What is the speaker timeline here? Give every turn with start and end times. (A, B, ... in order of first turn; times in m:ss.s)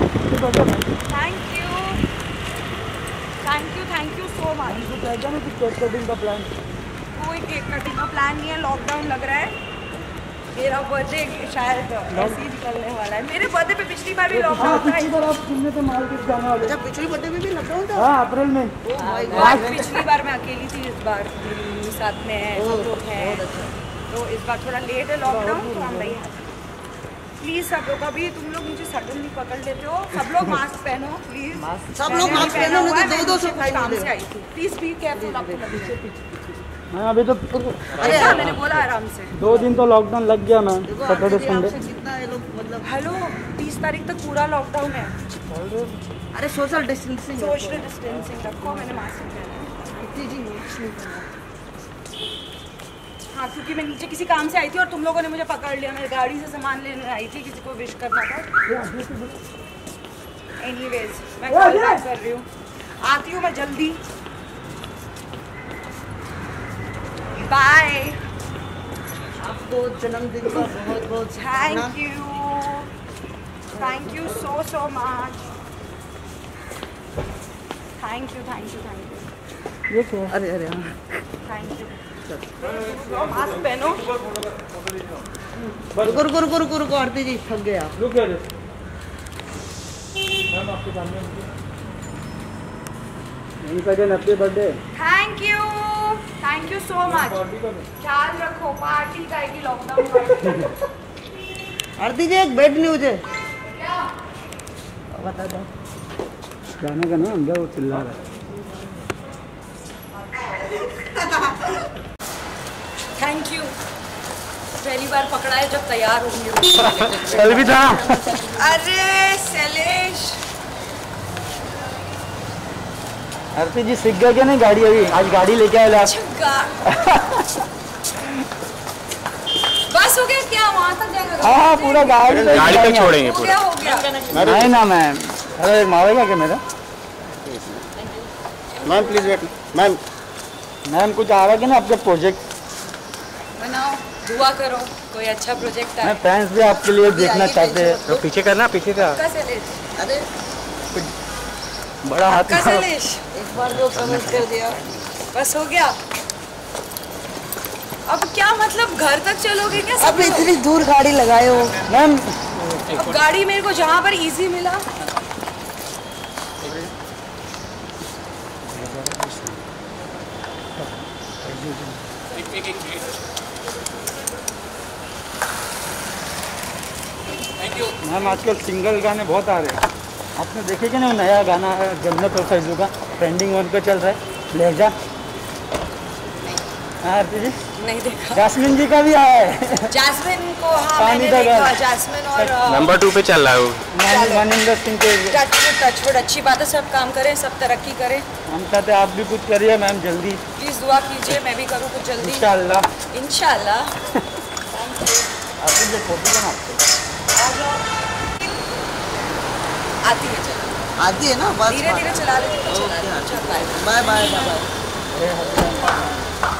0:00.3-0:00.9 A
0:01.1-0:02.0 B
0:03.4-0:04.9 B
0:04.6-0:06.5 A
0:07.1-0:09.5 B
0:10.5-0:15.2 B
0:12.1-0:12.4 A
0:14.3-0:16.8 A
0:16.6-0:18.1 C
0:18.0-0:18.8 A
0:18.8-0:20.0 C
0:19.0-0:23.5 B
0:19.3-0:19.8 A
0:22.5-0:23.7 C
0:24.1-0:26.4 B
0:25.2-0:26.2 A
0:27.4-0:36.0 B
0:31.7-0:34.1 C
0:32.2-0:32.9 A
0:35.1-0:36.4 C
0:36.9-0:38.6 A
0:37.9-0:38.6 C
0:38.0-0:39.4 B
0:39.3-0:41.8 A
0:40.8-0:42.9 C
0:42.8-0:45.1 B
0:45.5-0:46.1 A
0:46.3-0:47.9 C
0:47.3-0:50.0 B
0:48.2-0:48.8 A
0:50.0-0:51.3 C
0:53.3-0:58.5 B
0:58.7-0:59.4 A
1:00.6-1:02.4 B
1:01.5-1:02.0 A
1:03.0-1:04.0 B
1:07.3-1:08.2 B
1:09.4-1:12.0 C
1:11.3-1:12.9 B
1:13.7-1:15.5 B
1:18.0-1:19.3 B
1:19.9-1:20.3 A
1:20.3-1:21.1 C
1:21.4-1:22.0 B
1:22.3-1:22.5 C
1:22.6-1:24.1 B
1:25.9-1:28.0 C
1:25.9-1:26.2 A
1:28.0-1:28.4 A
1:30.5-1:31.4 A
1:33.6-1:34.8 A
1:34.9-1:37.4 B
1:37.0-1:37.8 A
1:38.0-1:40.7 B
1:42.0-1:43.2 C
1:43.8-1:44.1 B
1:45.1-1:45.7 C
1:46.8-1:48.2 A
1:50.7-1:51.7 C
1:53.2-1:53.7 B
1:54.8-1:57.8 B
1:56.8-1:58.3 A
1:57.4-1:58.5 C
1:58.4-2:00.4 B
2:03.5-2:06.1 A
2:05.9-2:06.8 B
2:06.8-2:07.6 A
2:09.9-2:14.1 B
2:11.4-2:13.2 A
2:12.3-2:13.6 D
2:13.9-2:14.7 C
2:14.3-2:16.6 A
2:17.3-2:18.1 C
2:18.7-2:19.5 B
2:18.8-2:20.0 C
2:20.8-2:22.4 A
2:23.6-2:26.2 B
2:26.0-2:28.0 A
2:26.6-2:28.3 C
2:28.1-2:29.2 D
2:29.0-2:29.8 B
2:30.0-2:30.2 C
2:32.0-2:32.9 A
2:32.3-2:33.2 B
2:33.3-2:34.8 C
2:33.6-2:35.0 A
2:35.3-2:36.0 B
2:38.0-2:40.5 B
2:40.0-2:41.8 C
2:41.9-2:43.0 A
2:42.9-2:44.8 B
2:46.6-2:46.9 A
2:48.6-2:49.6 A
2:50.8-2:52.0 A
2:57.9-2:59.8 A
3:00.4-3:04.9 A
3:07.0-3:07.6 A
3:07.8-3:08.5 B
3:08.3-3:09.9 A
3:09.9-3:12.9 B
3:10.9-3:11.8 A
3:12.6-3:13.8 D
3:13.9-3:15.4 A
3:14.0-3:14.5 B
3:15.3-3:18.2 B
3:18.5-3:20.4 A
3:20.6-3:22.5 B
3:22.2-3:22.8 A
3:23.1-3:23.9 B
3:24.7-3:25.3 B
3:25.6-3:26.8 A
3:27.3-3:27.8 B
3:30.0-3:30.8 B
3:31.0-3:34.7 C
3:31.6-3:34.6 B
3:35.1-3:36.2 A